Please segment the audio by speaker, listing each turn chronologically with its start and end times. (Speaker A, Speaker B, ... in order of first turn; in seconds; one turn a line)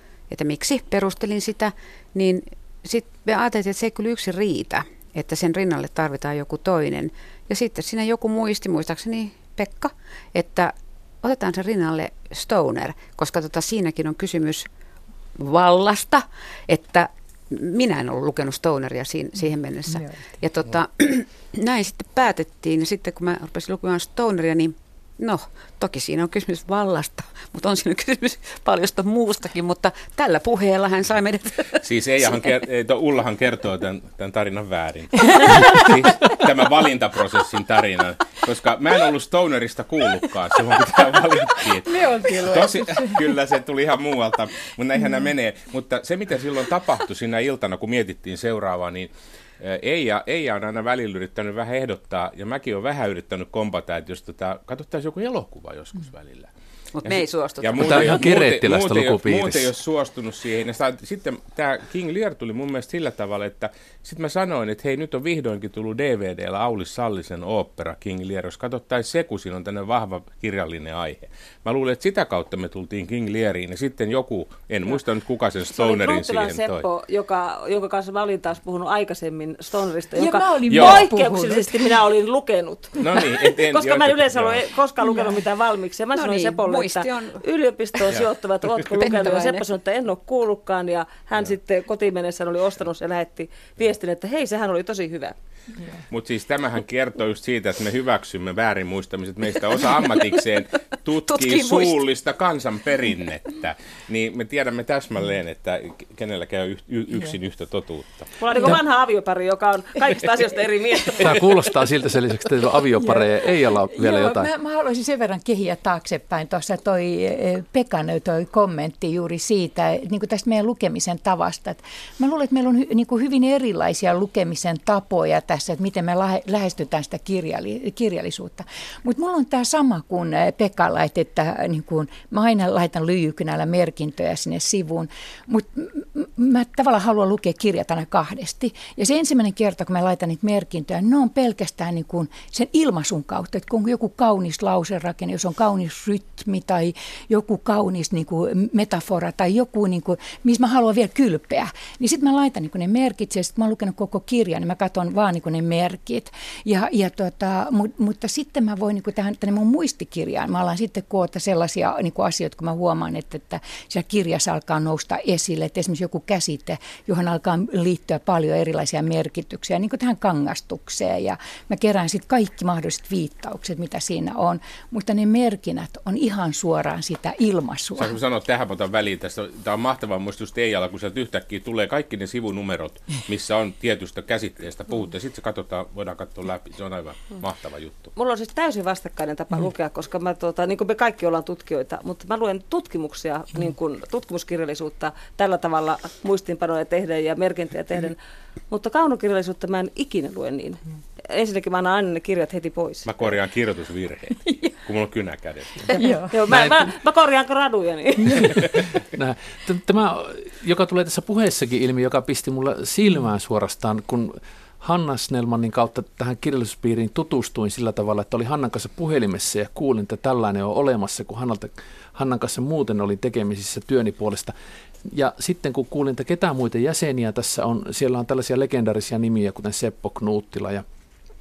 Speaker A: 0.3-14.7
Speaker A: 15.3-32.5
Speaker B: 31.8-56.5
Speaker C: 35.2-35.9
Speaker C: 41.9-43.3
Speaker A: 56.9-58.2
Speaker B: 57.0-76.8
Speaker D: 57.8-59.7
Speaker E: 75.8-95.3
Speaker C: 80.2-81.9
Speaker B: 80.7-81.1
Speaker B: 83.0-84.6
Speaker C: 85.0-85.4
Speaker A: 86.1-87.4
Speaker A: 88.9-89.6
Speaker B: 96.1-108.4
Speaker A: 101.3-102.0
Speaker E: 108.4-111.5
Speaker D: 111.2-114.5
Speaker C: 114.0-178.1
Speaker B: 178.0-188.1
Speaker E: 188.2-198.2
Speaker E: 198.7-203.1
Speaker B: 203.0-206.0
Speaker C: 205.9-206.3
Speaker E: 206.3-208.8
Speaker D: 206.5-206.9
Speaker D: 208.3-224.5
Speaker B: 208.4-208.8
Speaker D: 225.0-230.8